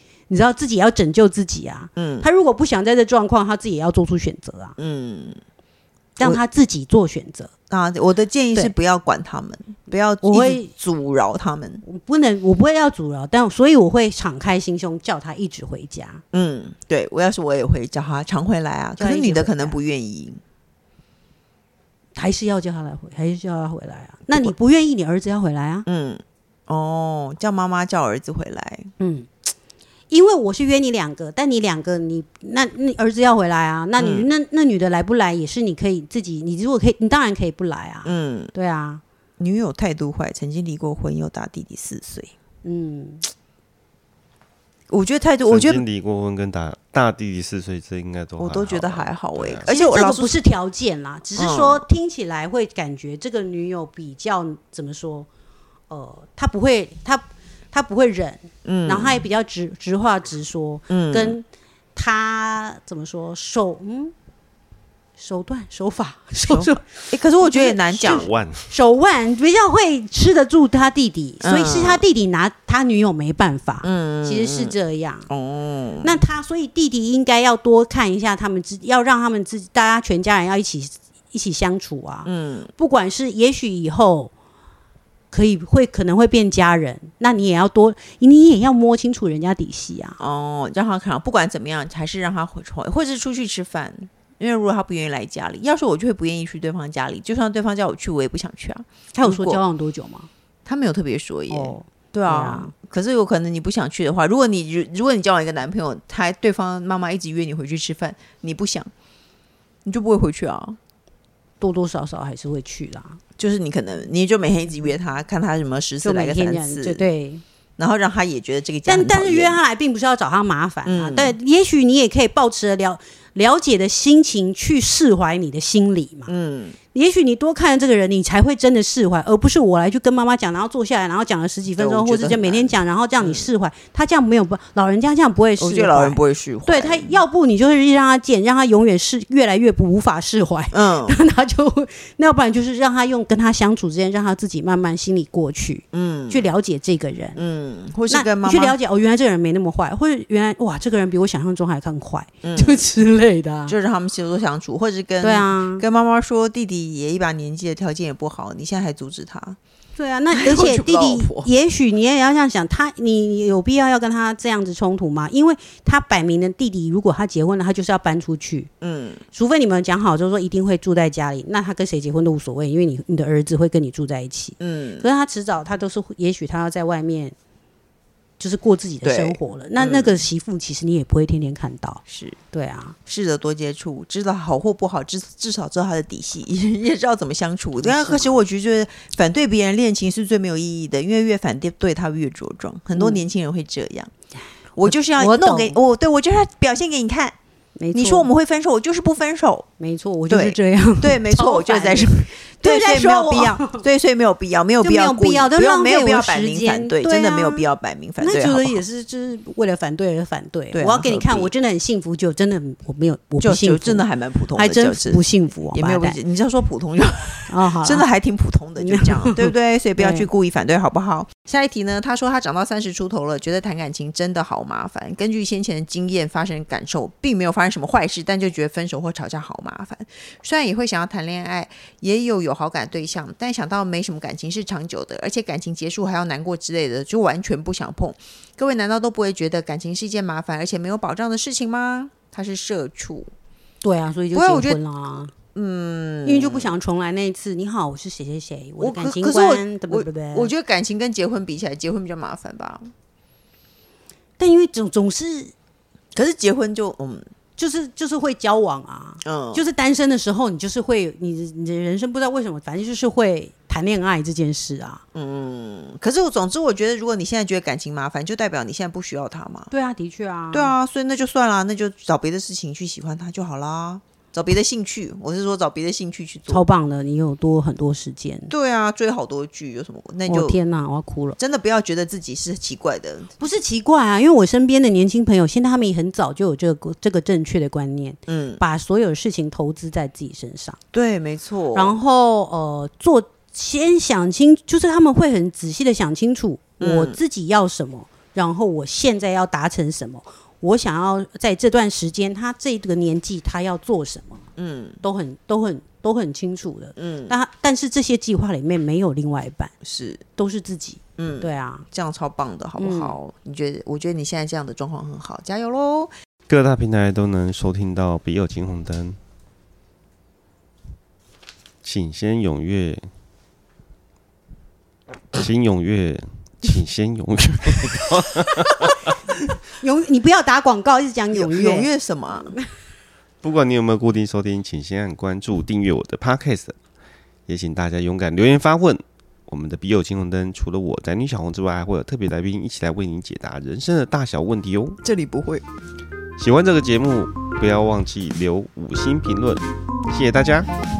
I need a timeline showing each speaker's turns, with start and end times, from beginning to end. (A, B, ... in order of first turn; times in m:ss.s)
0:00.3-0:04.8 A
0:02.0-0:02.3 B
0:04.8-0:05.4 B
0:06.2-0:07.5 A
0:07.7-0:11.8 B
0:10.2-0:10.7 A
0:11.8-0:16.2 A
0:16.3-0:20.4 B
0:19.0-0:19.8 A
0:22.1-0:25.8 A
0:25.8-0:28.9 B
0:29.0-0:29.3 A
0:30.1-0:39.0 A
0:34.0-0:34.3 B
0:38.0-0:38.5 B
0:39.4-0:42.3 B
0:42.6-0:43.3 A
0:44.9-0:45.8 B
0:45.5-0:49.7 C
0:48.4-0:50.4 B
0:49.6-0:55.3 A
0:51.4-0:51.8 B
0:55.9-1:04.1 A
0:58.6-0:59.2 B
1:00.9-1:01.4 B
1:05.2-1:15.3 A
1:06.5-1:08.3 B
1:08.1-1:08.7 C
1:11.4-1:12.0 B
1:13.8-1:14.7 B
1:15.3-1:16.2 B
1:16.0-1:24.3 A
1:22.2-1:22.7 B
1:25.3-1:30.2 A
1:30.2-1:39.6 B
1:39.1-1:40.3 A
1:40.6-1:48.9 B
1:41.5-1:42.7 A
1:49.8-1:50.8 B
1:51.6-1:53.2 A
1:53.4-1:57.0 B
1:56.0-1:57.4 A
1:57.8-1:59.6 B
1:58.8-2:06.3 A
2:00.8-2:01.4 B
2:06.3-2:06.8 B
2:06.9-2:27.4 A
2:11.8-2:13.5 B
2:15.6-2:17.2 B
2:20.7-2:21.2 B
2:25.9-2:26.4 B
2:27.4-2:28.8 B
2:28.1-2:33.8 A
2:32.4-2:32.8 B
2:33.7-2:39.6 B
2:35.2-2:35.8 A
2:40.0-2:48.7 A
2:40.3-2:41.5 B
2:48.8-2:49.2 B
2:49.3-2:57.3 A
2:54.6-2:55.1 B
2:58.4-3:03.0 A
2:59.0-3:00.2 B
3:02.1-3:02.4 B
3:03.0-3:14.1 B
3:07.8-3:08.4 A
3:13.0-3:13.2 A
3:14.8-3:17.3 B
3:14.9-3:15.8 A
3:17.8-3:18.3 A
3:17.9-3:19.6 B
3:19.8-3:23.8 A
3:20.3-3:28.8 B
3:24.8-3:36.2 A
3:30.7-3:31.5 B
3:33.4-4:03.3 B
3:37.5-3:38.1 A
3:38.8-3:40.3 A
4:03.8-4:05.3 A
4:04.3-4:04.8 B
4:05.4-4:06.7 B
4:06.2-4:10.5 A
4:08.8-4:12.9 B
4:14.4-4:15.5 A
4:16.1-4:17.2 B
4:17.6-4:25.0 A
4:19.2-4:19.6 B
4:25.1-4:29.7 B
4:29.7-4:30.7 A
4:30.5-4:36.6 B
4:36.5-4:38.5 A
4:38.5-4:40.6 B
4:40.2-4:41.4 A
4:41.4-4:43.3 B
4:43.4-4:50.8 A
4:48.3-4:48.6 B
4:50.9-4:52.0 B
4:51.7-5:04.4 A
4:56.8-4:57.2 B
5:04.6-5:05.0 B
5:05.0-5:09.7 A
5:07.0-5:07.3 B
5:09.8-5:10.2 B
5:10.4-5:11.9 A
5:11.2-5:16.1 B
5:12.8-5:13.2 A
5:16.5-5:19.2 C
5:21.8-5:23.1 C
5:25.3-5:29.1 C
5:29.8-5:31.9 A
5:31.3-5:32.6 B
5:33.4-5:36.8 C
5:37.5-5:45.0 C
5:45.0-5:45.6 B
5:46.4-5:50.7 C